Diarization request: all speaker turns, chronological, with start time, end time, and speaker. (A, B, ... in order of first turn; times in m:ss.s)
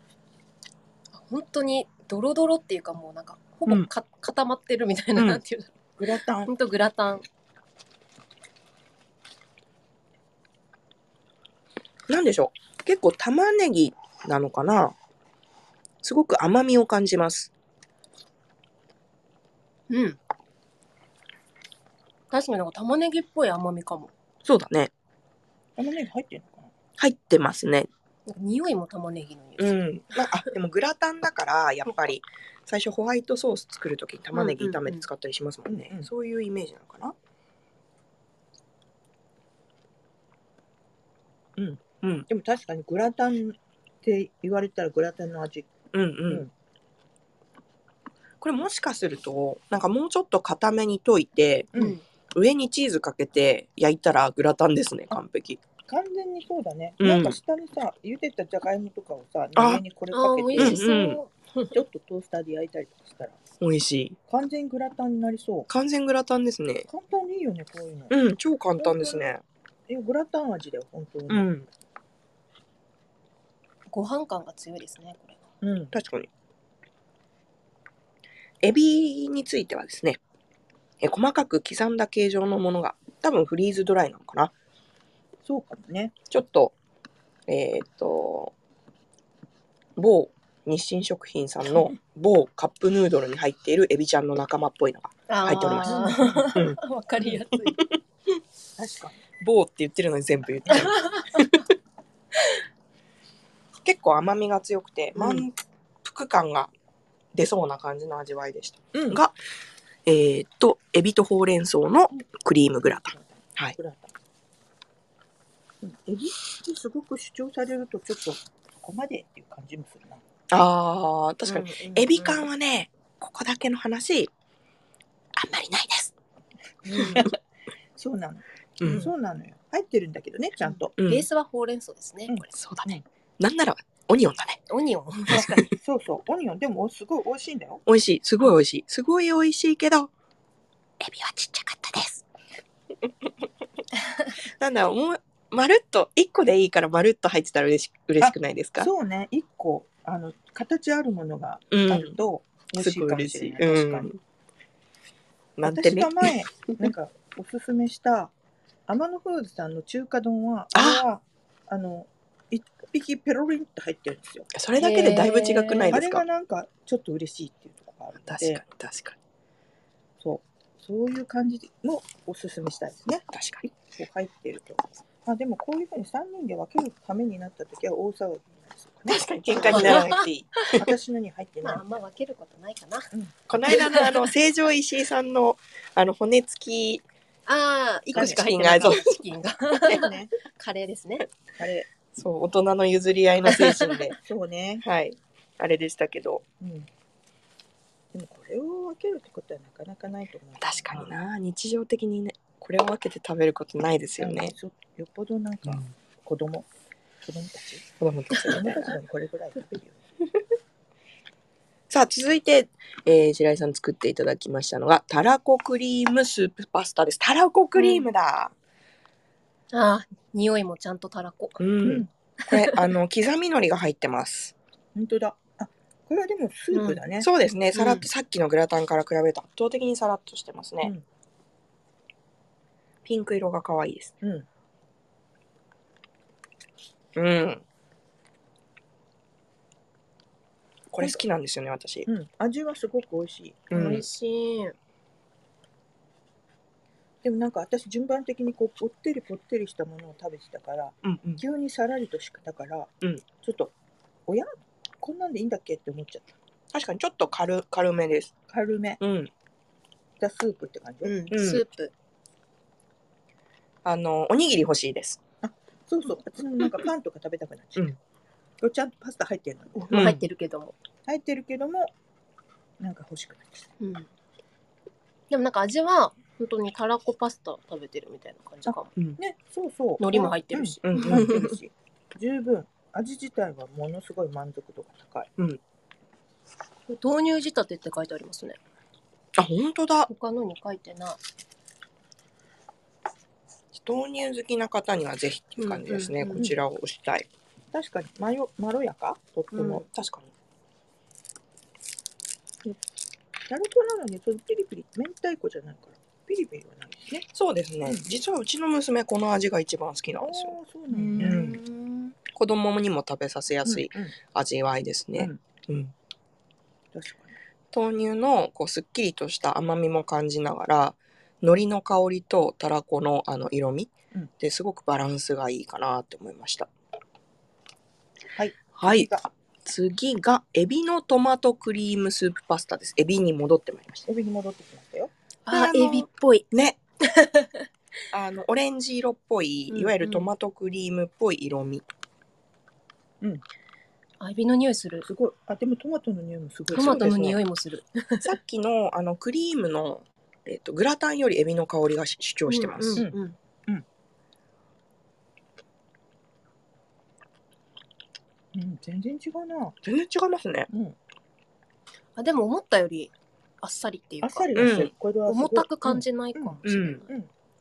0:01.1-0:07.2 A
0:06.0-0:06.5 B
0:12.1-0:14.9 B
0:16.0-0:17.5 B
0:19.9-0:20.2 A
0:22.3-0:24.1 A
0:24.4-0:24.9 B
0:25.8-0:26.7 C
0:27.0-0:27.9 B
0:28.3-0:30.4 A
0:29.6-0:37.1 B
0:34.3-0:35.0 A
0:35.6-0:36.1 C
0:41.6-0:45.7 C
0:42.0-0:42.2 B
0:45.9-0:46.5 B
0:48.4-0:51.7 B
0:51.7-0:52.0 A
0:52.3-0:55.6 B
0:55.9-1:00.8 C
0:57.0-0:57.4 B
0:59.6-0:59.8 B
1:00.1-1:01.7 A
1:00.6-1:01.2 B
1:01.7-1:03.4 C
1:03.6-1:04.2 B
1:04.3-1:05.7 C
1:05.7-1:06.9 B
1:06.9-1:08.1 C
1:08.1-1:09.4 B
1:08.8-1:09.3 C
1:09.9-1:11.5 C
1:11.3-1:11.7 B
1:13.9-1:15.4 A
1:15.6-1:15.9 C
1:15.9-1:16.3 B
1:18.6-1:20.2 B
1:21.0-1:24.5 B
1:25.4-1:26.1 C
1:26.3-1:26.7 B
1:27.5-1:28.5 B
1:30.0-1:38.0 B
1:35.3-1:37.8 A
1:35.8-1:36.5 C
1:38.8-1:39.2 C
1:39.4-1:41.6 B
1:40.7-1:41.3 A
1:43.8-1:46.7 B
1:47.3-1:49.3 B
1:48.9-1:49.2 C
1:50.0-1:53.8 B
1:52.8-1:54.1 C
1:55.8-2:00.2 C
2:00.5-2:04.3 B
2:01.5-2:02.0 A
2:01.9-2:02.4 C
2:05.4-2:06.1 B
2:06.8-2:07.3 C
2:06.9-2:07.3 B
2:06.9-2:07.2 A
2:08.0-2:10.9 C
2:08.8-2:09.1 B
2:10.6-2:12.5 A
2:11.0-2:11.3 B
2:12.3-2:13.0 C
2:12.6-2:14.6 B
2:14.7-2:15.7 A
2:15.3-2:15.7 B
2:15.6-2:17.8 C
2:17.9-2:20.1 B
2:21.0-2:22.0 B
2:24.4-2:28.9 B
2:28.2-2:34.1 C
2:31.7-2:32.2 B
2:32.7-2:34.2 B
2:35.6-2:36.8 B
2:35.6-2:38.3 C
2:38.9-2:44.5 C
2:40.7-2:41.0 B
2:44.5-2:46.2 B
2:44.8-2:46.0 A
2:45.9-2:48.6 C
2:48.2-2:49.2 B
2:50.2-3:00.1 C
2:53.3-2:53.7 B
2:59.1-3:00.8 B
2:59.5-3:00.8 A
3:00.7-3:01.8 C
3:01.6-3:03.1 A
3:03.1-3:03.8 C
3:03.5-3:07.0 B
3:03.6-3:04.2 A
3:07.5-3:11.3 A
3:08.1-3:09.2 B
3:08.1-3:08.9 C
3:09.8-3:10.3 C
3:11.6-3:11.9 C
3:12.1-3:14.2 B
3:13.4-3:14.1 A
3:14.2-3:14.8 C
3:14.8-3:16.4 B
3:16.6-3:16.9 C
3:18.1-3:21.1 C
3:20.6-3:24.5 B
3:24.2-3:26.7 C
3:27.2-3:27.9 C
3:28.0-3:28.9 B
3:28.4-3:30.0 C
3:31.9-3:38.5 B
3:37.8-3:38.0 A
3:39.7-3:41.6 A
3:41.6-3:44.5 B
3:41.8-3:42.1 C
3:42.5-3:42.8 A
3:44.9-3:47.3 C
3:46.7-3:47.0 A
3:47.2-3:50.9 B
3:47.7-3:48.1 A
3:53.0-3:54.1 B
3:54.2-3:54.5 C
3:57.1-3:57.6 B
4:00.9-4:02.1 B
4:02.0-4:03.7 C
4:03.7-4:04.0 B
4:03.7-4:04.8 A
4:07.2-4:13.7 C
4:11.0-4:11.4 B
4:14.3-4:16.3 C
4:16.7-4:18.3 B
4:18.5-4:19.0 C
4:19.0-4:19.3 B
4:20.2-4:21.3 C
4:21.0-4:21.9 A
4:21.3-4:21.6 B
4:23.8-4:25.2 B
4:25.4-4:27.9 C
4:28.6-4:30.1 C
4:29.7-4:30.7 A
4:29.9-4:30.2 B
4:31.0-4:31.9 C
4:32.8-4:33.7 C
4:33.8-4:34.1 A
4:35.3-4:38.9 A
4:38.6-4:45.3 C
4:40.0-4:41.5 A
4:40.8-4:41.4 B
4:46.9-4:48.6 A
4:49.4-4:50.1 B
4:50.1-4:51.2 A
4:53.7-4:57.3 B
4:55.6-4:56.4 A
4:57.7-4:59.8 C
4:59.5-4:59.8 A
4:59.7-5:00.3 B
5:03.5-5:07.3 C
5:07.3-5:10.5 B
5:10.2-5:11.5 C
5:10.9-5:12.1 A
5:11.2-5:11.6 B
5:12.3-5:15.9 B
5:13.6-5:14.1 C
5:16.9-5:17.3 C
5:17.7-5:26.7 B
5:28.3-5:29.3 C
5:28.8-5:29.1 B
5:29.6-5:34.0 B
5:34.0-5:35.1 C
5:35.5-5:36.5 A
5:35.5-5:36.8 B
5:37.0-5:37.7 A
5:38.1-5:41.8 B
5:39.7-5:40.3 A
5:44.2-5:45.1 A
5:45.0-5:47.2 C
5:46.7-5:48.3 A
5:46.7-5:47.4 B
5:48.2-5:53.0 B
5:52.5-5:53.4 A
5:53.0-5:53.8 C
5:58.5-5:59.8 C
5:59.8-6:00.7 B
6:00.7-6:01.0 C
6:02.2-6:07.1 A
6:04.2-6:07.3 C
6:04.5-6:04.9 B
6:06.6-6:07.0 B